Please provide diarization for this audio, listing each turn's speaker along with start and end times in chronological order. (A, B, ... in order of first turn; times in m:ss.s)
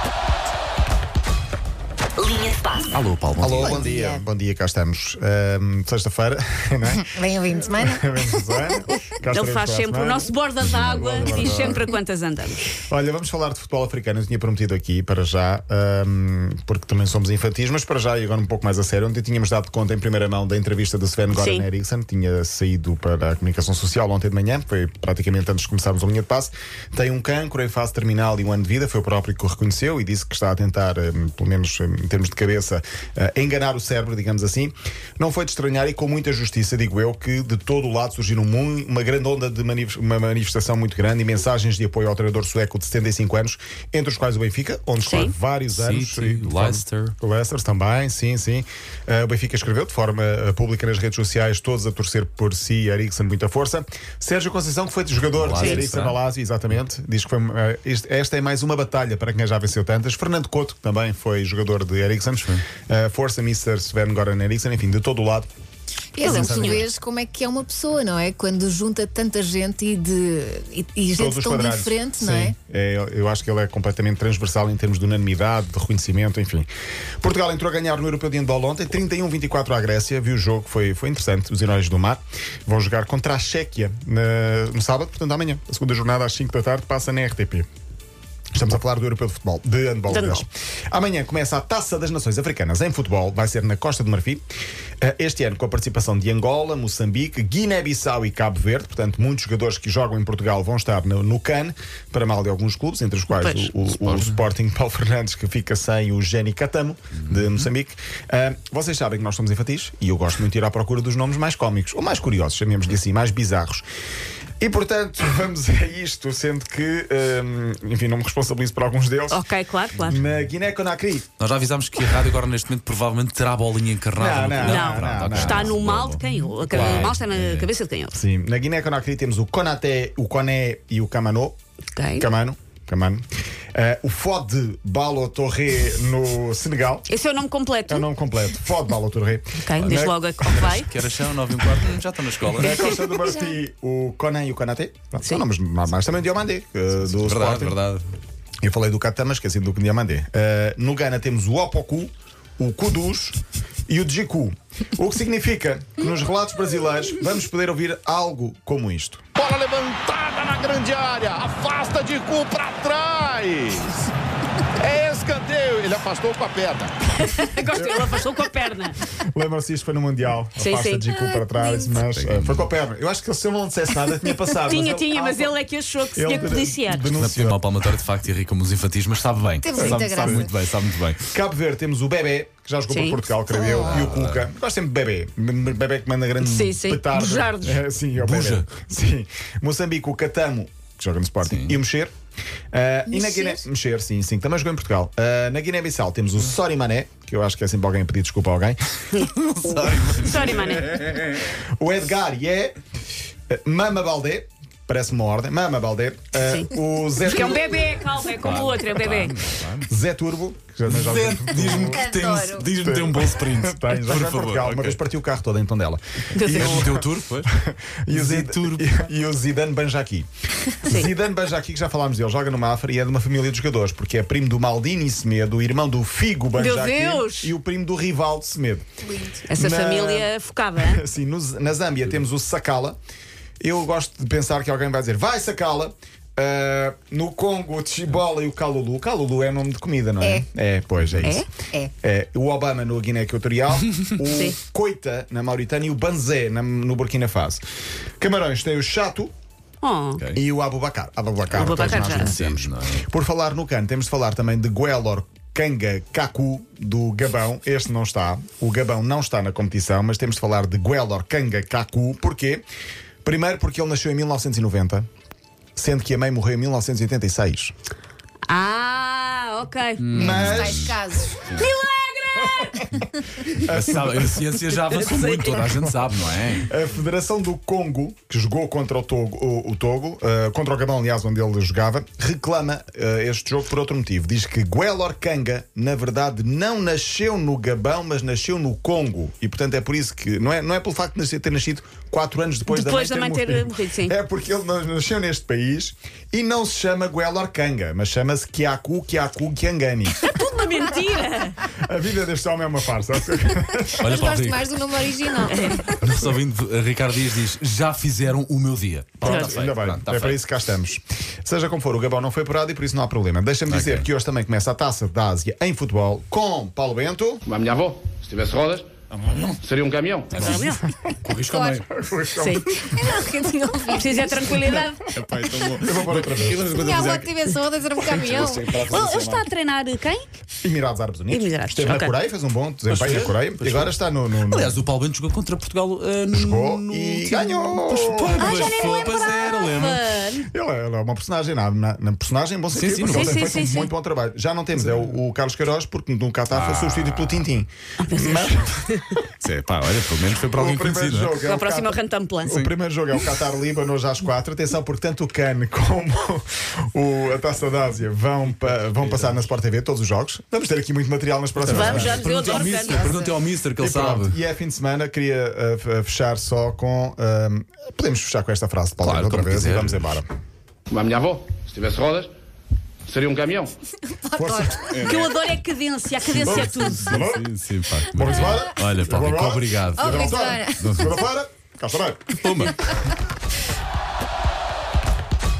0:02.8-0:03.8 A
0:03.4-0:11.9 B
0:03.6-0:04.2 C
0:07.0-0:08.3 C
0:09.3-0:12.7 D
0:12.8-1:05.5 B
0:21.3-0:21.7 D
0:45.0-0:45.3 D
0:45.7-0:47.1 A
0:55.4-0:56.2 A
0:55.5-0:55.8 D
1:06.1-1:12.5 C
1:06.2-1:06.9 B
1:06.2-1:06.8 D
1:11.1-1:16.7 B
1:17.2-1:27.7 B
1:28.5-1:34.4 B
1:30.1-1:30.4 D
1:35.0-1:53.8 B
1:43.3-1:43.7 D
1:43.9-1:44.4 A
1:47.2-1:47.7 A
1:54.6-1:59.4 B
1:59.3-2:00.2 D
2:00.0-2:01.3 B
2:01.4-2:07.7 A
2:04.1-2:05.8 B
2:04.6-2:08.2 D
2:06.7-2:07.2 B
2:08.1-2:11.6 B
2:11.9-2:12.3 D
2:12.1-2:17.0 B
2:17.1-2:18.1 D
2:17.9-2:20.6 B
2:19.6-2:20.9 D
2:19.8-2:22.8 A
2:22.5-2:27.8 B
2:22.6-2:23.1 D
2:27.0-2:28.1 A
2:28.6-2:33.4 B
2:33.9-2:39.2 B
2:39.4-2:44.0 E
2:44.8-2:47.0 E
2:47.2-2:49.0 D
2:47.7-2:48.3 B
2:49.1-2:55.6 B
2:50.6-2:51.0 D
2:51.4-2:51.9 C
2:52.0-2:52.7 A
2:54.6-2:57.1 D
2:56.1-2:57.8 B
2:57.1-3:01.2 A
2:59.6-3:00.5 C
2:59.8-3:00.5 B
3:01.3-3:12.1 B
3:02.9-3:03.2 D
3:03.5-3:04.1 C
3:03.7-3:04.5 A
3:06.4-3:07.8 D
3:08.2-3:08.7 A
3:11.4-3:11.8 A
3:12.7-3:18.8 B
3:13.1-3:13.6 C
3:19.1-3:20.7 A
3:20.0-3:22.8 B
3:20.2-3:21.0 D
3:23.5-3:28.0 B
3:26.5-3:29.3 D
3:28.4-3:29.9 A
3:29.9-3:32.1 B
3:30.8-3:35.0 A
3:31.8-3:32.7 C
3:32.8-3:40.3 B
3:36.3-3:36.9 D
3:36.4-3:37.5 A
3:38.1-3:39.1 A
3:40.8-3:48.8 B
3:46.5-3:47.5 D
3:49.0-3:49.4 C
3:49.4-3:51.0 D
3:49.5-3:53.0 B
3:53.6-4:01.5 B
4:01.0-4:01.4 A
4:02.0-4:07.6 B
4:04.2-4:04.6 D
4:08.2-4:09.3 B
4:09.8-4:10.2 D
4:10.3-4:22.6 B
4:11.5-4:13.0 A
4:11.5-4:12.3 D
4:23.2-4:25.1 B
4:25.8-4:27.7 B
4:28.5-4:30.6 D
4:30.0-4:31.7 A
4:30.1-4:31.0 B
4:30.2-4:31.5 C
4:31.6-4:33.0 D
4:32.6-4:33.0 B
4:33.5-4:34.6 B
4:33.6-4:36.7 A
4:34.7-4:35.7 D
4:35.4-4:35.8 B
4:36.6-5:00.3 B
4:52.7-4:54.1 D
5:00.2-5:01.6 D
5:01.7-5:04.2 B
5:04.0-5:05.4 A
5:04.0-5:06.2 C
5:05.4-5:05.8 D
5:06.0-5:10.4 A
5:09.2-5:17.4 B
5:09.2-5:09.6 D
5:13.7-5:14.1 A
5:17.4-5:18.9 F
5:19.2-5:19.6 A
5:19.6-5:20.5 F
5:20.3-5:20.6 A
5:20.3-5:20.8 D
5:20.6-5:21.3 B
5:21.2-5:21.8 A
5:21.5-5:21.8 C
5:21.8-5:23.2 B
5:22.4-5:22.7 D
5:22.7-5:24.8 C
5:23.9-5:25.1 D
5:25.1-5:29.4 A
5:25.8-5:26.7 B
5:26.6-5:28.8 C
5:28.9-5:30.2 D
5:30.6-5:34.8 B
5:31.3-5:32.1 D
5:32.9-5:40.0 A
5:36.3-5:39.0 B
5:38.4-5:40.5 D
5:40.5-5:49.3 B
5:42.7-5:43.6 A
5:43.0-5:43.9 D
5:44.8-5:45.1 A
5:46.5-5:47.5 A
5:48.0-5:48.5 D
5:49.4-5:51.4 A
5:50.5-6:10.3 B
5:51.4-5:52.6 D
5:52.5-5:52.7 A
5:58.6-5:59.4 A
6:01.6-6:04.4 A
6:01.7-6:03.3 D
6:09.0-6:10.1 A
6:10.9-6:12.3 F
6:13.1-6:13.7 F
6:14.1-6:15.2 C
6:14.3-6:15.2 B
6:14.9-6:15.2 A
6:15.0-6:17.2 D
6:16.2-6:21.2 A
6:16.4-6:22.7 B
6:20.0-6:21.2 C
6:22.4-6:23.1 A